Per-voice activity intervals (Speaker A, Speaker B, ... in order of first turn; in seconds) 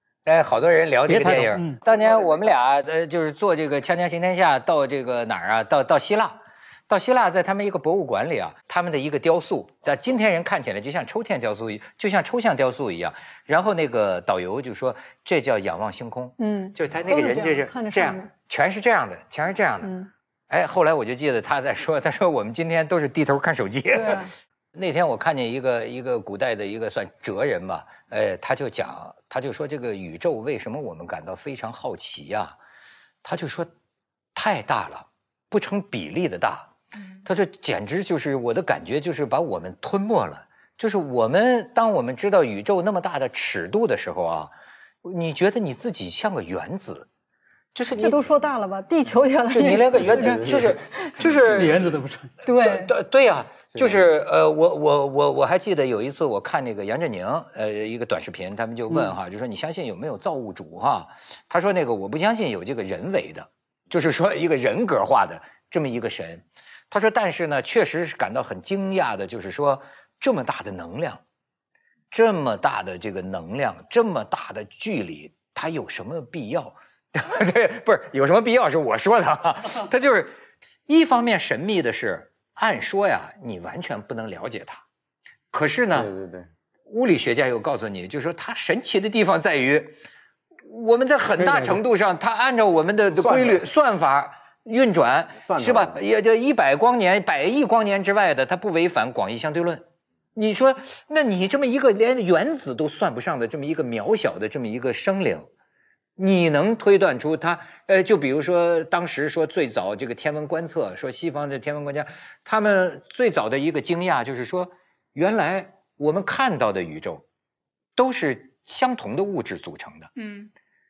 Speaker A: 0.3-19.9, 20.5-32.5, 33.2-33.7, 34.4-36.7, 37.2-44.5, 45.0-47.1, 47.8-48.3, 49.5-51.8, 52.6-71.2, 72.1-80.3, 80.9-84.8, 85.5-86.1, 86.9-89.9, 90.7-99.8, 100.3-105.5, 106.2-117.2, 118.0-120.1
Speaker B: 1.1-1.8, 51.5-52.3, 58.9-59.1, 91.4-91.8
Speaker C: 16.4-18.3, 19.8-20.1, 23.9-24.3, 47.9-51.1, 52.4-52.9
Speaker D: 50.0-50.8, 53.7-54.0, 85.9-86.5, 93.1-93.6, 95.4-96.0